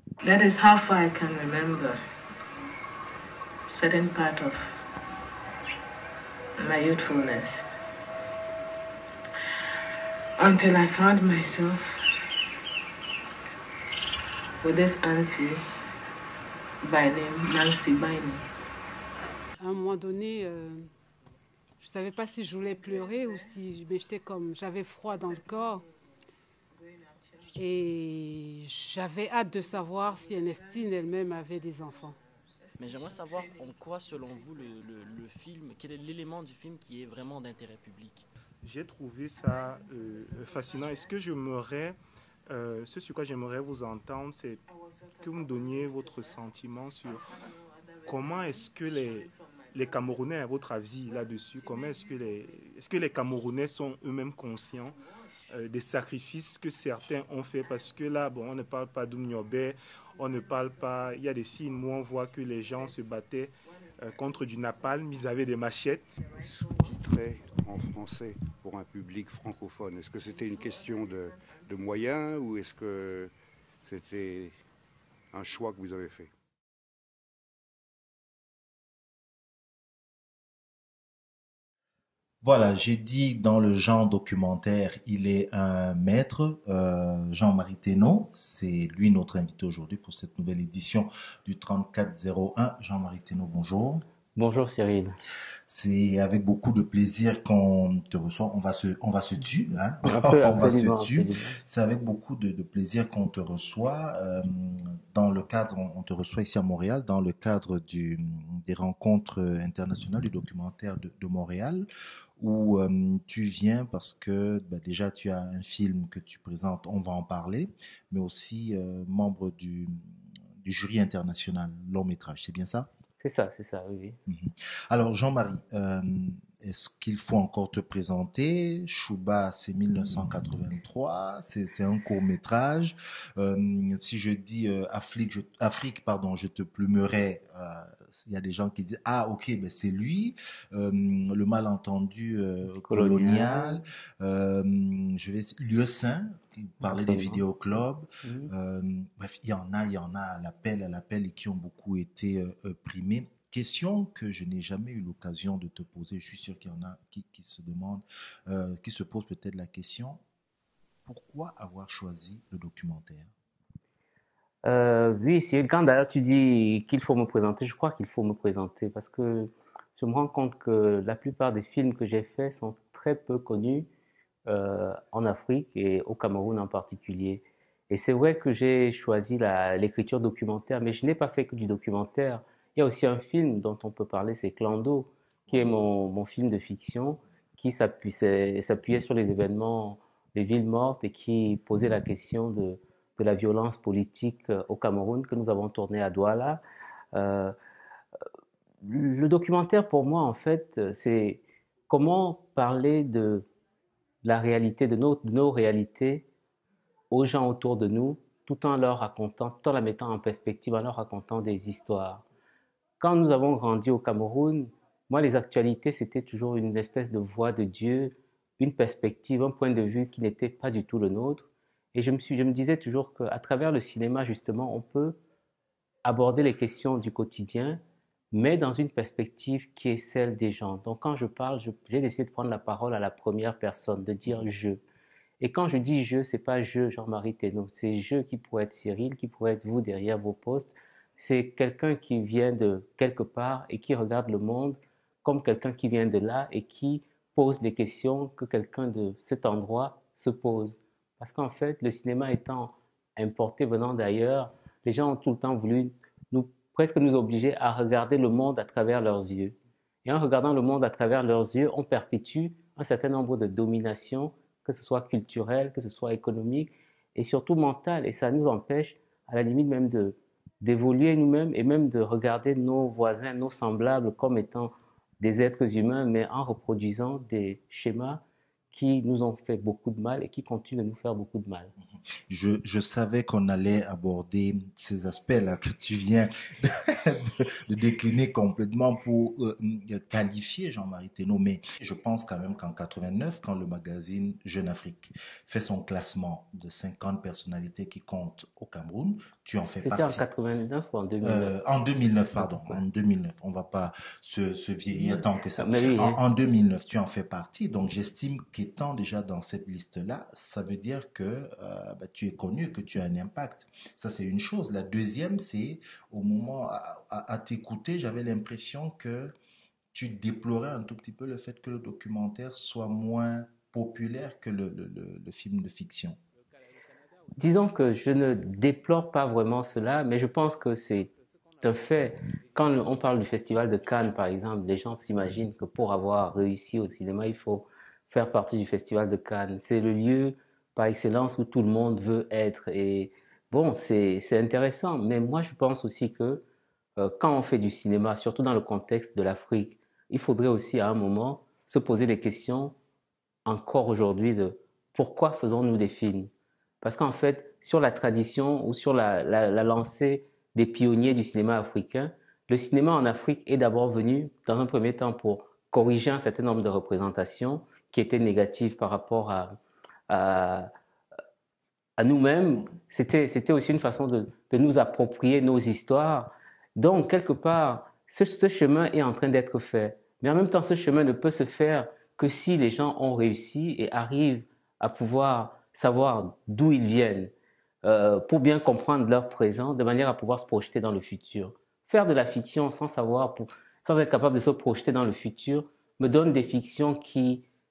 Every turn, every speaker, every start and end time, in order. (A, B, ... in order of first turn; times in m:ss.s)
0:00.2-0:02.0 A
0:03.7-0:04.8 A
0:06.6-0:07.6 A
0:10.4-0:12.1 A
0:14.6-0:15.6 A
0:16.8-0:18.4 A
0:19.6-0:20.9 B
0:21.8-0:25.8 B
0:27.6-0:32.2 B
0:32.8-0:38.3 C
0:38.6-0:42.0 D
0:42.5-0:44.6 D
0:45.2-0:47.3 D
0:48.1-0:55.0 D
0:55.5-1:06.2 D
1:06.3-1:13.3 E
1:13.8-1:14.6 E
1:15.3-1:16.3 E
1:22.4-1:34.0 F
1:34.4-1:35.2 G
1:35.7-1:51.9 F
1:40.0-1:41.6 G
1:52.4-2:00.1 F
2:00.6-2:02.9 F
2:03.2-2:04.2 G
2:04.3-2:40.2 F
2:22.8-2:23.8 G
2:26.8-2:27.4 G
2:28.2-2:28.5 G
2:41.1-2:43.3 F
2:44.6-2:53.9 G
2:54.5-3:16.6 G
3:05.5-3:05.7 F
3:17.1-3:17.6 G
3:18.8-3:23.4 G
3:24.2-3:26.3 G
3:27.1-3:32.2 G
3:33.0-3:45.2 G
3:46.0-3:47.8 G
3:48.3-3:54.8 G
3:55.4-4:41.7 G
4:42.3-5:00.2 F
4:59.8-5:01.5 G
5:01.2-5:19.3 F
5:02.4-5:02.8 G
5:05.0-5:06.2 G
5:19.9-5:26.2 F
5:27.4-5:31.1 G
5:31.6-5:46.4 G
5:47.0-5:52.8 G
5:53.5-5:56.3 G
5:56.8-6:09.6 G
6:10.1-6:10.7 G
6:12.0-6:27.3 G
6:27.8-6:37.4 G